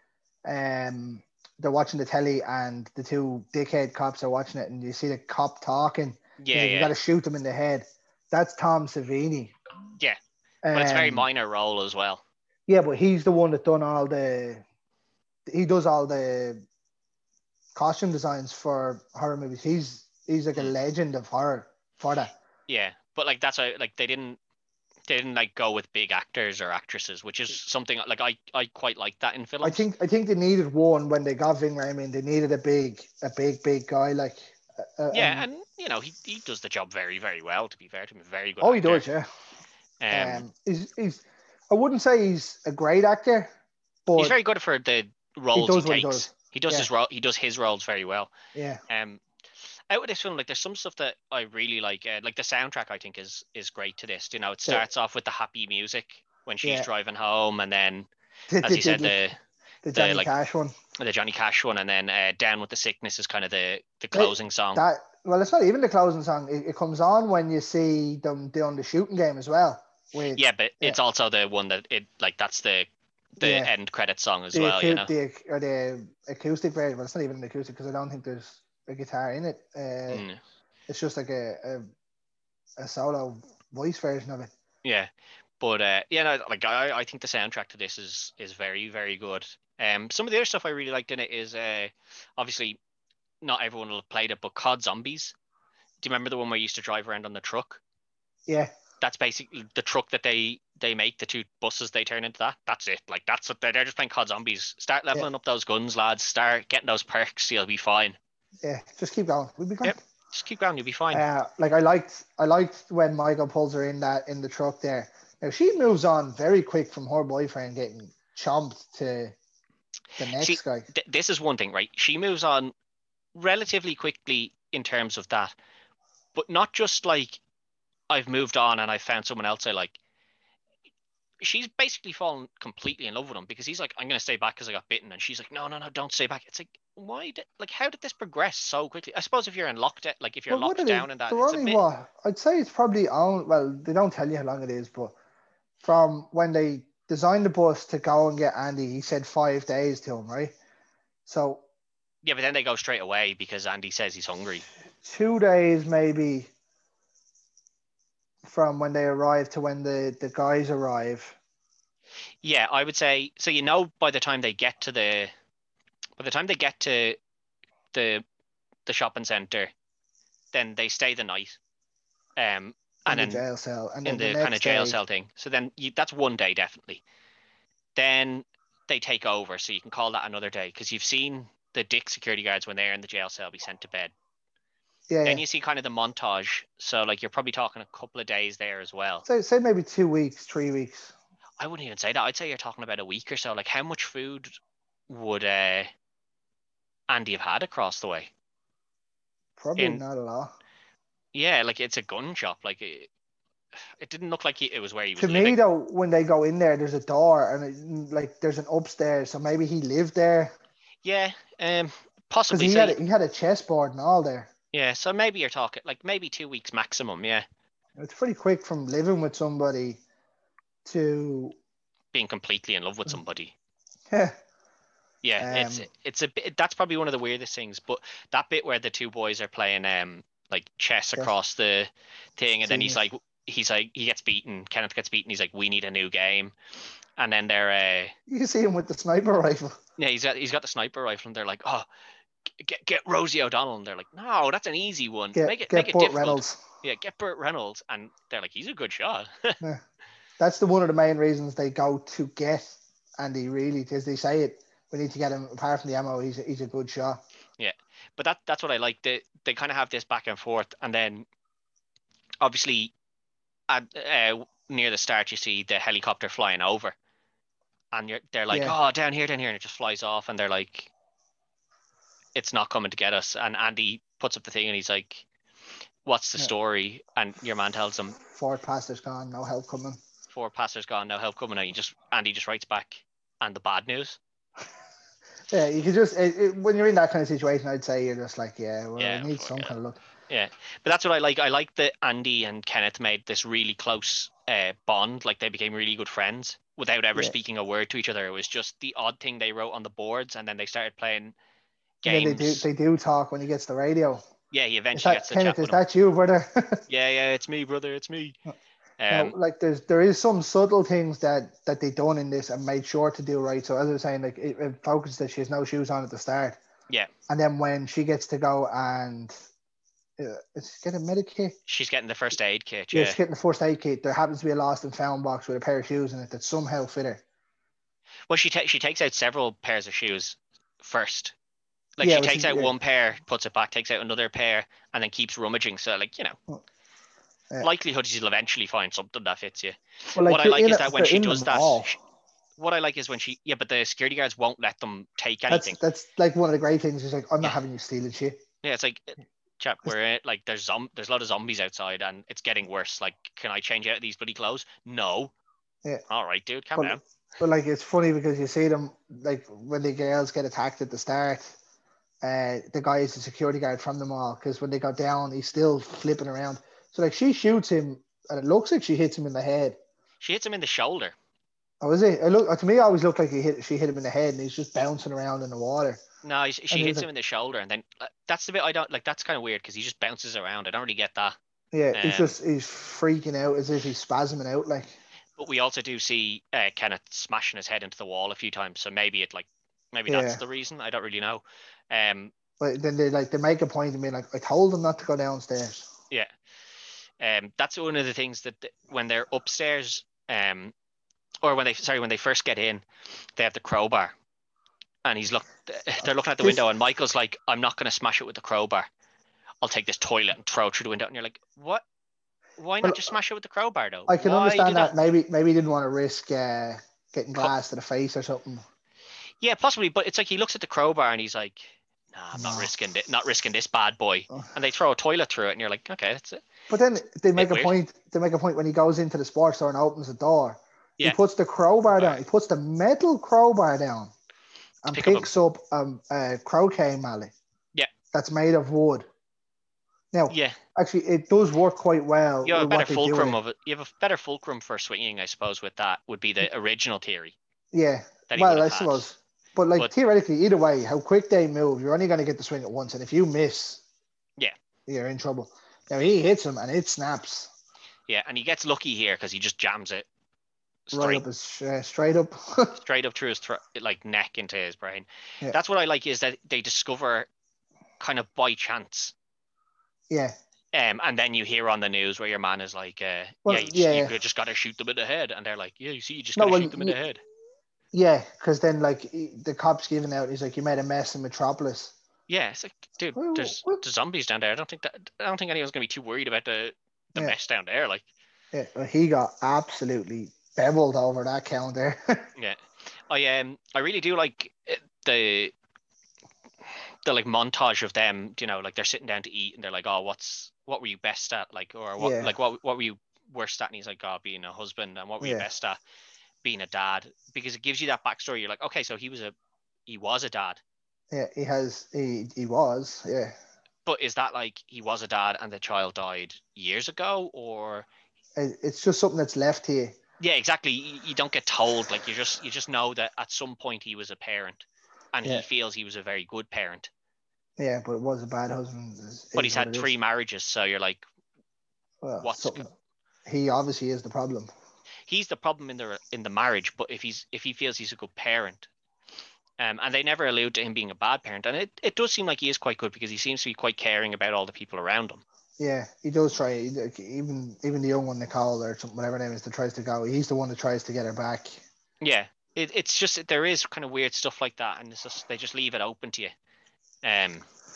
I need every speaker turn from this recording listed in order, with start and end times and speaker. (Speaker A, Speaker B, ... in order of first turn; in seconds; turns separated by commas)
Speaker A: 0.4-9.5, Speaker B: 6.4-6.9, Speaker A: 10.6-11.2, Speaker B: 10.7-12.2, Speaker A: 12.7-14.6, Speaker A: 15.5-16.6, Speaker A: 17.7-22.3, Speaker B: 22.7-24.4, Speaker B: 25.1-29.9, Speaker A: 29.6-35.5, Speaker B: 35.1-39.0, Speaker A: 38.6-39.3, Speaker B: 40.0-40.5, Speaker A: 40.1-43.5, Speaker A: 44.0-44.3, Speaker B: 44.1-48.3, Speaker A: 45.5-46.9, Speaker A: 48.5-48.8, Speaker B: 48.9-49.2, Speaker B: 49.9-58.1, Speaker A: 56.6-56.9, Speaker A: 58.5-59.2, Speaker B: 58.6-59.4, Speaker A: 59.8-60.7, Speaker B: 59.9-60.3, Speaker B: 61.0-64.8, Speaker A: 64.1-71.0, Speaker B: 70.3-75.1, Speaker A: 73.4-73.7, Speaker A: 74.5-80.2, Speaker B: 80.1-80.4, Speaker A: 80.9-81.9, Speaker A: 82.8-84.5, Speaker B: 84.8-92.8, Speaker B: 93.4-95.3, Speaker B: 96.0-97.8, Speaker A: 98.5-98.7, Speaker B: 99.0-108.2, Speaker A: 108.6-110.0, Speaker B: 109.8-111.2, Speaker A: 111.1-119.3, Speaker A: 120.2-120.9, Speaker B: 120.3-122.7, Speaker B: 123.3-125.5, Speaker B: 126.3-127.4, Speaker B: 128.1-130.0, Speaker B: 131.4-141.8, Speaker A: 140.5-145.1, Speaker A: 145.8-150.5, Speaker A: 151.2-151.6, Speaker B: 152.2-154.7, Speaker A: 155.0-156.5, Speaker A: 158.4-161.4, Speaker B: 162.4-165.3, Speaker B: 166.2-167.2, Speaker B: 167.9-168.2, Speaker B: 168.8-169.7, Speaker B: 170.5-171.6, Speaker B: 172.4-173.4, Speaker A: 173.1-175.0, Speaker B: 174.0-177.0, Speaker B: 177.9-184.1, Speaker A: 185.1-185.4, Speaker B: 185.2-189.2, Speaker A: 189.2-191.1, Speaker B: 191.6-194.5, Speaker B: 195.1-195.9, Speaker B: 197.1-198.3, Speaker A: 199.6-200.5, Speaker B: 199.8-200.0, Speaker B: 201.3-203.1, Speaker B: 204.0-205.6, Speaker A: 205.2-210.5, Speaker B: 211.0-213.0, Speaker A: 212.5-214.5, Speaker B: 214.7-217.4, Speaker A: 218.0-220.0, Speaker A: 220.8-221.6, Speaker B: 222.1-223.5, Speaker A: 224.1-224.3, Speaker B: 225.2-236.5, Speaker A: 225.4-225.9, Speaker A: 232.6-233.0, Speaker B: 237.2-238.1, Speaker A: 238.3-239.8, Speaker B: 240.0-241.9, Speaker B: 242.6-249.6, Speaker A: 245.3-246.6, Speaker A: 250.4-257.2, Speaker B: 257.6-261.2, Speaker B: 262.4-262.9, Speaker B: 263.7-266.9, Speaker B: 267.9-270.9, Speaker A: 268.5-268.8, Speaker B: 272.3-275.2, Speaker B: 276.0-278.2, Speaker A: 278.2-280.0, Speaker B: 280.3-284.2, Speaker A: 285.5-290.0, Speaker B: 289.0-289.7, Speaker B: 290.3-301.3, Speaker B: 302.0-302.7, Speaker A: 302.1-304.2, Speaker B: 304.5-305.8, Speaker A: 304.9-306.8, Speaker B: 306.9-308.4, Speaker B: 309.0-309.4, Speaker A: 309.1-316.6, Speaker A: 317.3-319.3, Speaker A: 320.2-321.6, Speaker B: 321.7-323.2, Speaker A: 322.9-327.2, Speaker B: 328.3-331.3, Speaker B: 332.0-336.4, Speaker A: 332.0-332.7, Speaker B: 337.6-342.0, Speaker A: 340.1-341.9, Speaker B: 342.6-345.8, Speaker A: 345.5-348.4, Speaker B: 348.6-355.3, Speaker B: 356.1-357.0, Speaker A: 356.8-361.6, Speaker A: 362.2-369.8, Speaker B: 370.2-371.1, Speaker A: 371.8-376.0, Speaker B: 376.2-381.4, Speaker A: 376.7-377.1, Speaker A: 381.7-384.9, Speaker B: 381.9-382.4, Speaker B: 385.4-392.3, Speaker A: 390.1-390.4, Speaker A: 392.6-395.9, Speaker B: 397.2-400.7, Speaker B: 401.4-402.8, Speaker B: 403.4-404.1, Speaker B: 405.0-408.9, Speaker B: 409.6-411.8, Speaker B: 412.6-414.9, Speaker A: 414.1-418.6, Speaker B: 419.4-426.4, Speaker A: 422.3-422.7, Speaker A: 426.7-434.1, Speaker B: 427.3-427.7, Speaker B: 431.9-432.2, Speaker A: 434.8-437.3, Speaker B: 434.9-435.3, Speaker A: 438.1-439.1, Speaker A: 440.1-443.4, Speaker B: 440.3-440.6, Speaker B: 442.4-447.4, Speaker A: 447.7-453.8, Speaker B: 448.3-449.1, Speaker A: 454.9-457.5, Speaker B: 458.1-460.1, Speaker B: 460.9-461.2, Speaker A: 460.9-462.8, Speaker B: 462.8-467.3, Speaker B: 468.0-469.1, Speaker B: 470.7-477.2, Speaker A: 473.4-474.1, Speaker A: 476.4-477.0, Speaker A: 477.9-481.9, Speaker B: 482.3-488.0, Speaker A: 483.1-483.8, Speaker A: 488.5-492.3, Speaker B: 492.4-495.5, Speaker B: 497.0-505.8, Speaker A: 502.0-502.3, Speaker A: 505.2-505.4, Speaker B: 506.4-509.3, Speaker B: 509.9-510.6, Speaker A: 511.1-513.3, Speaker B: 513.8-517.9, Speaker A: 518.4-519.9, Speaker B: 520.2-526.9, Speaker A: 527.6-529.9, Speaker B: 529.3-531.0, Speaker A: 532.0-532.7, Speaker B: 532.2-532.7, Speaker A: 533.2-534.5, Speaker B: 535.1-538.7, Speaker B: 539.6-545.2, Speaker A: 545.6-551.6, Speaker B: 552.0-556.3, Speaker B: 557.0-557.5